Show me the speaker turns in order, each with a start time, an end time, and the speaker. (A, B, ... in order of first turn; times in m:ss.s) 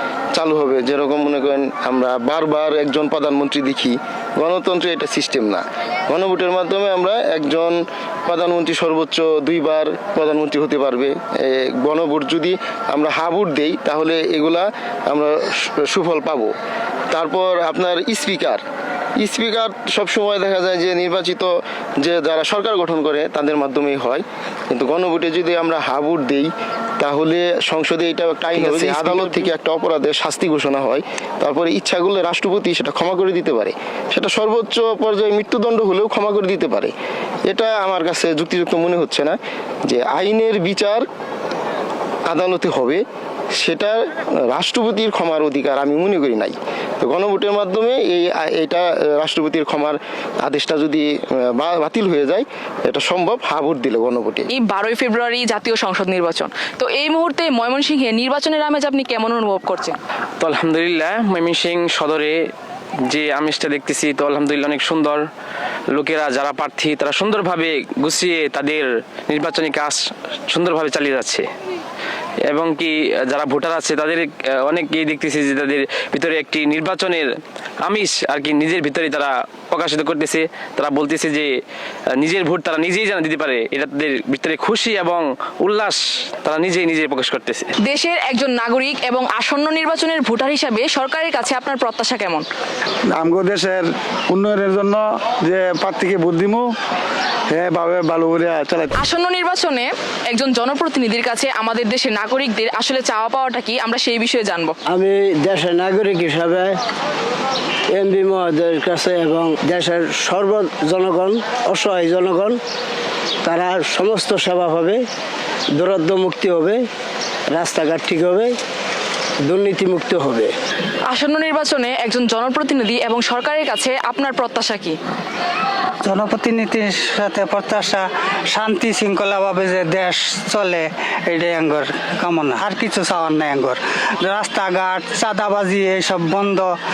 0:00.3-0:16.5 A
0:17.1-0:18.6 A
0:19.2-0:21.5 A
0:22.0-0:36.9 A
0:37.5-0:41.0 A
0:42.3-0:43.0 A
0:43.6-0:54.5 A
0:54.5-1:00.0 B
1:00.4-1:02.3 C
1:03.1-1:05.2 C
1:05.9-1:10.0 C
1:10.5-1:11.5 C
1:12.5-1:17.2 C
1:17.8-1:21.5 C
1:22.2-1:27.7 C
1:27.8-1:32.4 B
1:33.2-1:36.6 D
1:37.5-1:38.9 D
1:39.0-1:44.7 B
1:44.9-1:46.7 E
1:47.9-1:52.6 E
1:53.4-1:55.0 E
1:55.8-1:56.8 E
1:57.5-1:58.5 E
1:59.4-2:00.5 E
2:01.1-2:05.0 B
2:06.0-2:16.7 F